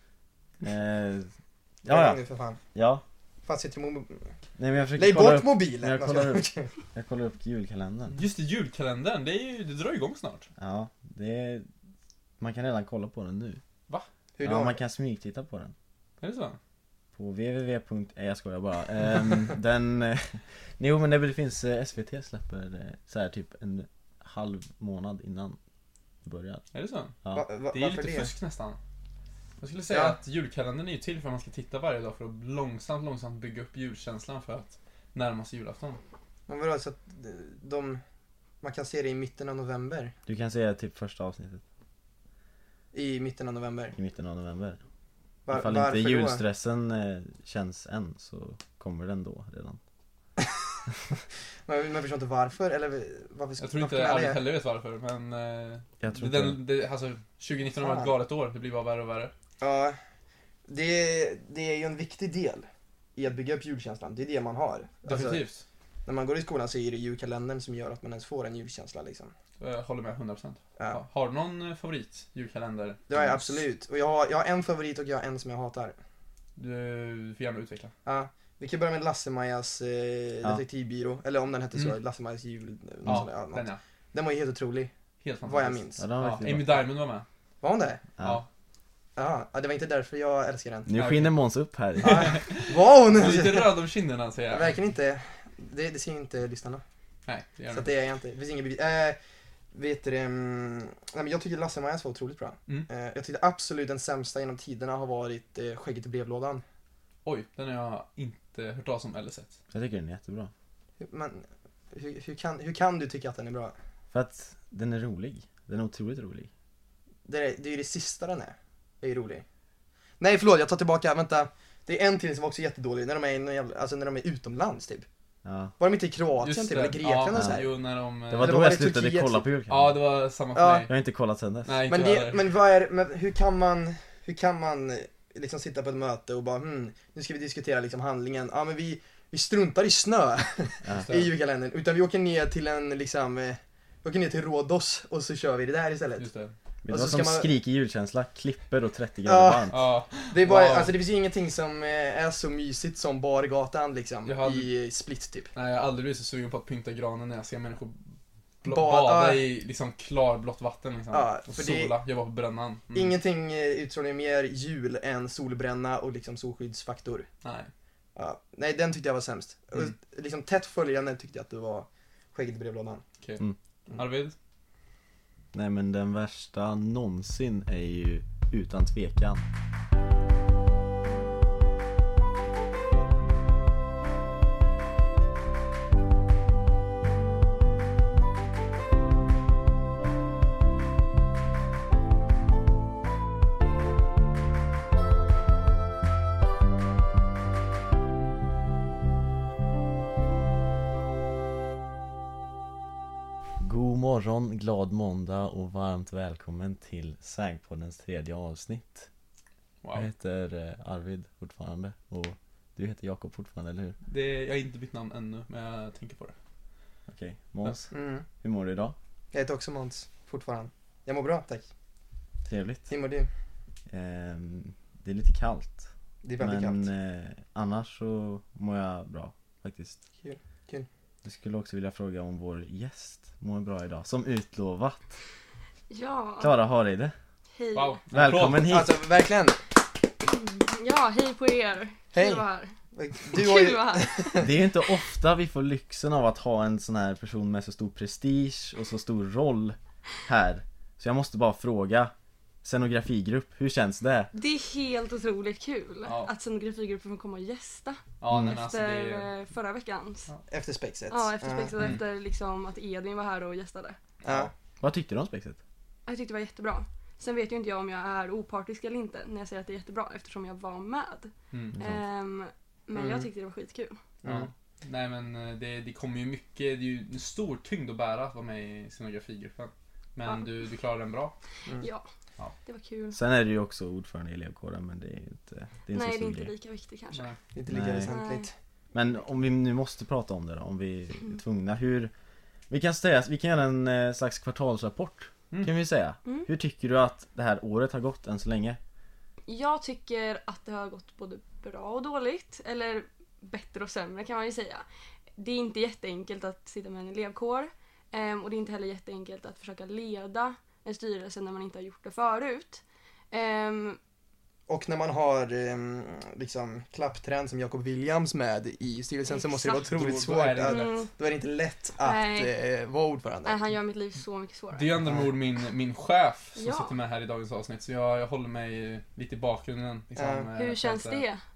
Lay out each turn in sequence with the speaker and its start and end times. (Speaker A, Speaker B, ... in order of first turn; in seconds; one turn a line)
Speaker A: 0.6-1.3
Speaker B: 1.8-2.6
Speaker A: 1.9-2.2
Speaker A: 2.7-3.0
Speaker B: 3.5-4.3
Speaker A: 4.6-8.2
Speaker B: 5.0-6.7
Speaker C: 8.1-10.5
Speaker A: 10.6-11.7
Speaker A: 12.4-13.6
Speaker B: 14.4-14.8
Speaker A: 14.4-15.7
Speaker C: 16.2-16.6
Speaker A: 17.1-25.6
Speaker A: 26.2-26.6
Speaker C: 26.7-27.1
Speaker B: 27.3-28.3
Speaker C: 27.7-28.8
Speaker C: 29.6-36.0
Speaker B: 29.9-30.2
Speaker B: 36.5-38.0
Speaker B: 38.6-40.1
Speaker A: 40.3-41.6
Speaker B: 42.9-44.0
Speaker A: 43.9-44.8
Speaker B: 45.5-46.4
Speaker A: 45.5-49.8
Speaker B: 51.6-54.4
Speaker C: 53.6-59.3
Speaker A: 56.0-56.6
Speaker B: 57.8-58.1
Speaker B: 59.6-60.0
Speaker B: 60.7-65.4
Speaker C: 65.0-65.6
Speaker B: 66.0-69.3
Speaker C: 69.6-73.6
Speaker B: 73.1-76.0
Speaker C: 76.6-77.9
Speaker B: 78.0-84.9
Speaker C: 83.0-83.8
Speaker C: 85.2-87.2
Speaker B: 85.4-86.1
Speaker A: 86.0-86.8
Speaker B: 87.6-88.0
Speaker C: 88.2-88.5
Speaker B: 89.2-90.9
Speaker A: 90.9-92.4
Speaker C: 90.9-91.3
Speaker B: 92.0-93.8
Speaker C: 92.0-94.7
Speaker B: 94.5-96.8
Speaker C: 97.2-97.9
Speaker B: 97.7-99.2
Speaker B: 99.7-106.6
Speaker C: 107.2-109.5
Speaker A: 109.7-110.5
Speaker B: 111.0-113.7
Speaker A: 114.1-116.5
Speaker B: 117.2-119.4
Speaker B: 120.2-125.1
Speaker A: 125.4-125.7
Speaker B: 125.8-127.7
Speaker C: 126.4-128.6
Speaker A: 127.3-127.6
Speaker A: 128.3-130.0
Speaker B: 128.4-129.4
Speaker C: 129.7-130.9
Speaker B: 130.5-130.9
Speaker A: 130.8-131.8
Speaker C: 131.7-132.5
Speaker B: 131.9-146.3
Speaker C: 141.1-141.3
Speaker C: 146.2-146.5
Speaker A: 146.8-149.8
Speaker B: 146.9-147.5
Speaker B: 149.2-149.8
Speaker C: 149.7-150.9
Speaker B: 150.3-155.5
Speaker C: 154.2-154.7
Speaker C: 155.5-158.0
Speaker C: 158.6-163.1
Speaker B: 158.6-159.5
Speaker B: 161.1-162.0
Speaker B: 162.9-167.3
Speaker C: 167.4-167.7
Speaker B: 168.1-173.0
Speaker C: 173.2-174.3
Speaker A: 175.5-179.4
Speaker A: 203.6-209.1
Speaker C: 209.8-210.1
Speaker A: 209.9-213.9
Speaker C: 214.1-216.3
Speaker A: 217.1-218.9
Speaker B: 217.9-218.2
Speaker B: 219.3-221.7
Speaker A: 222.5-222.9
Speaker B: 222.9-223.3
Speaker A: 223.9-225.8
Speaker B: 226.2-226.9
Speaker A: 226.4-230.0
Speaker B: 230.2-230.9
Speaker A: 231.2-235.0
Speaker D: 235.9-236.5
Speaker A: 236.4-237.1
Speaker D: 237.6-237.9
Speaker C: 237.7-238.7
Speaker A: 238.1-239.0
Speaker B: 238.7-239.6
Speaker D: 240.2-242.7
Speaker B: 242.1-244.5
Speaker D: 243.3-244.3
Speaker A: 244.4-252.1
Speaker A: 252.6-254.3
Speaker D: 254.3-260.3
Speaker C: 256.0-256.3
Speaker C: 258.2-259.3
Speaker B: 260.5-261.9
Speaker D: 261.1-264.0
Speaker B: 264.2-264.5
Speaker A: 264.3-265.6
Speaker D: 266.1-274.0
Speaker A: 271.7-272.0
Speaker B: 272.9-273.3
Speaker B: 274.2-274.5
Speaker C: 274.2-281.3
Speaker D: 281.8-282.1
Speaker D: 282.6-283.2
Speaker A: 283.1-286.5
Speaker D: 285.9-287.3
Speaker C: 287.1-287.4
Speaker B: 287.5-288.5
Speaker A: 287.7-288.1
Speaker D: 288.1-288.5
Speaker A: 288.9-292.1
Speaker A: 292.7-298.8
Speaker D: 299.5-304.8
Speaker D: 305.4-314.0
Speaker B: 314.7-323.6
Speaker D: 319.3-319.9
Speaker C: 319.7-321.1
Speaker D: 320.6-321.1
Speaker D: 322.0-322.5
Speaker D: 323.4-324.9
Speaker C: 324.7-331.2
Speaker B: 325.1-325.3
Speaker D: 326.6-326.9
Speaker B: 330.1-330.5
Speaker D: 330.5-331.4